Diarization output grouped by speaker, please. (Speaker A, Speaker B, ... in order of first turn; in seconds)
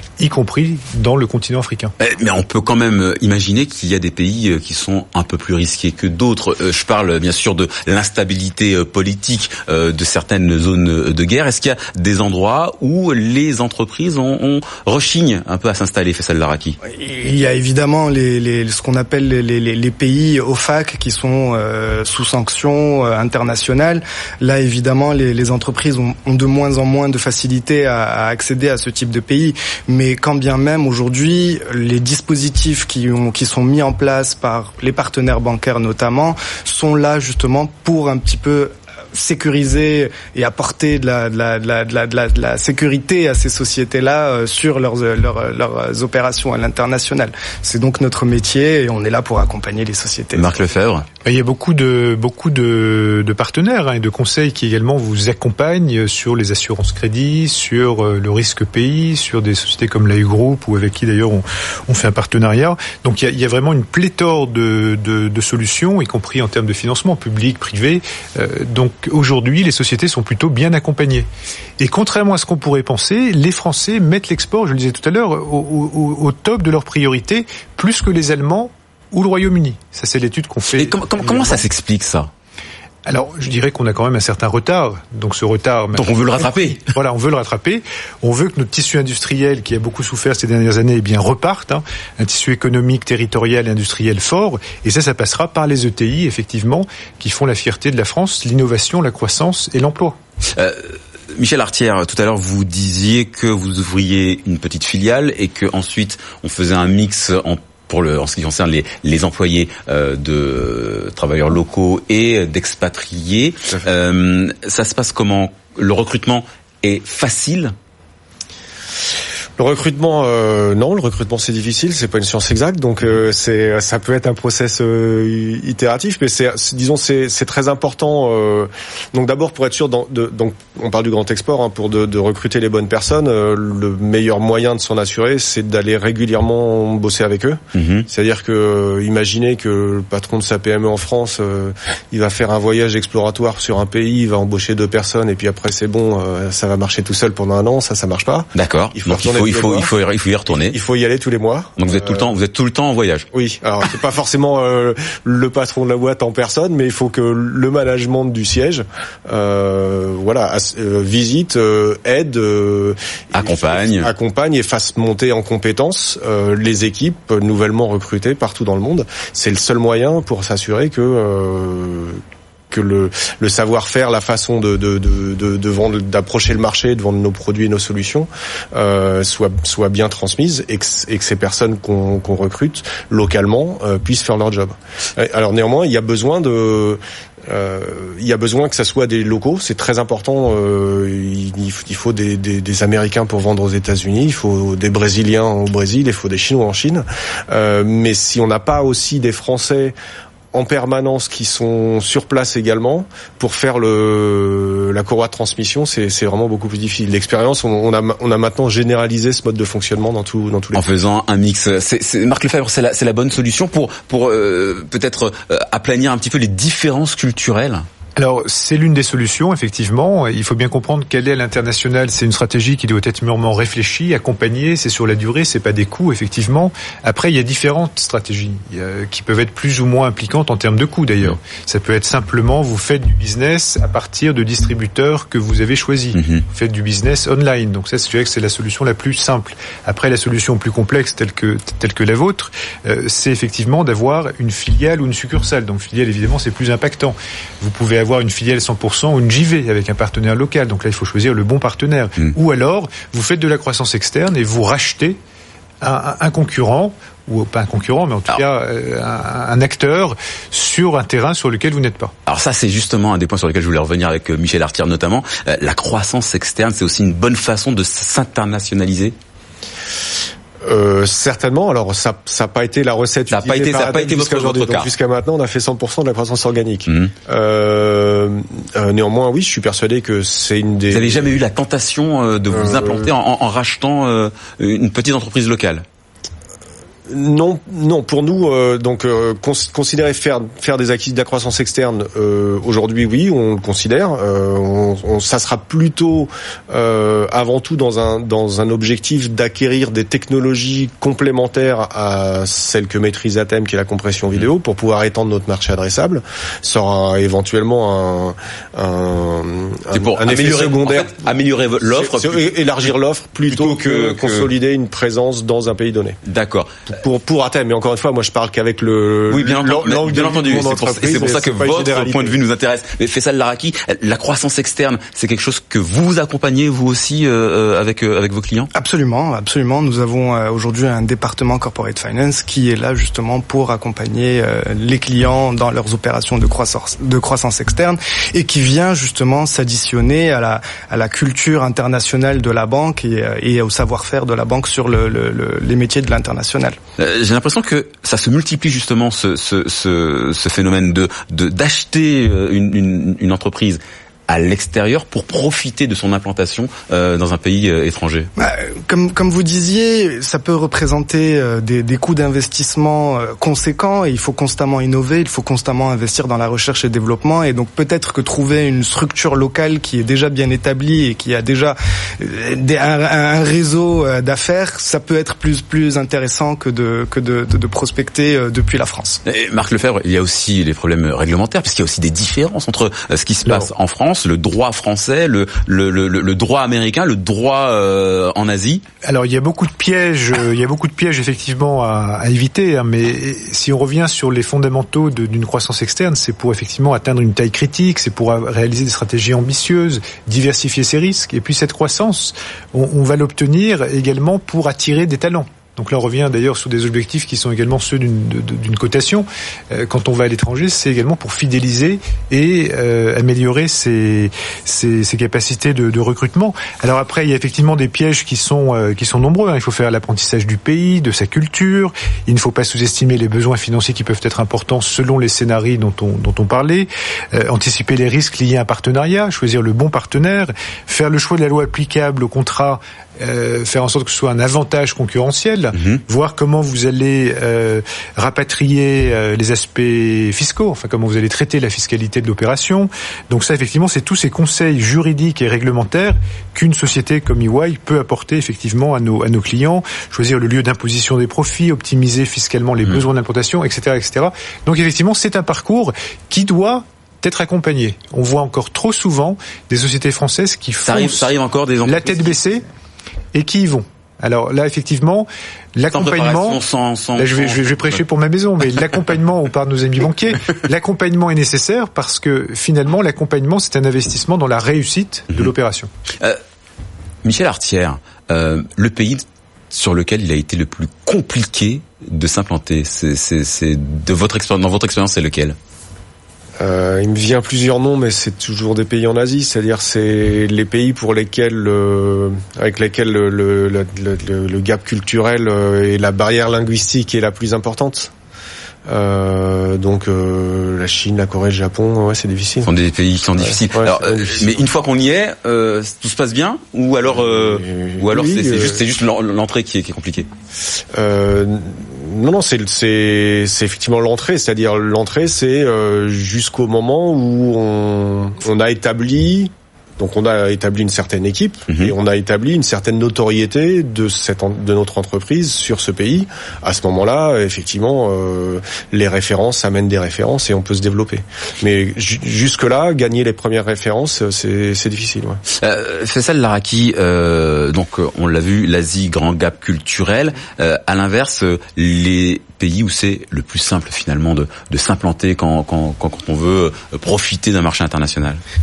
Speaker A: 0.2-1.9, 51.2-71.3, 71.8-81.6, 83.0-100.2, 218.2-255.2, 255.8-262.1, 389.0-461.3, 461.8-462.6, 463.3-466.6, 467.1-475.9
Speaker B: 2.0-16.8, 50.3-51.0, 80.8-82.3, 86.0-86.9, 100.5-117.7, 137.8-138.1, 148.5-150.7, 151.8-153.3, 163.3-164.1, 210.7-217.8, 236.1-236.4, 262.2-269.1, 273.3-274.9, 280.9-285.8, 309.9-312.9, 313.5-314.5, 316.2-316.8, 319.3-328.7, 347.0-358.3, 379.2-388.8, 460.9-462.4, 465.9-467.8, 477.2-485.6, 502.6-510.3, 521.7-521.9, 535.5-548.4
Speaker C: 16.9-50.5, 328.7-346.8, 358.4-379.2
Speaker D: 119.6-149.9, 150.5-152.3, 153.3-199.9, 200.5-210.8, 270.6-281.4, 282.5-283.1, 287.1-311.2, 311.8-316.2, 316.9-322.4, 486.6-498.1, 498.9-502.7, 503.4-504.7, 507.1-508.8, 510.9-535.4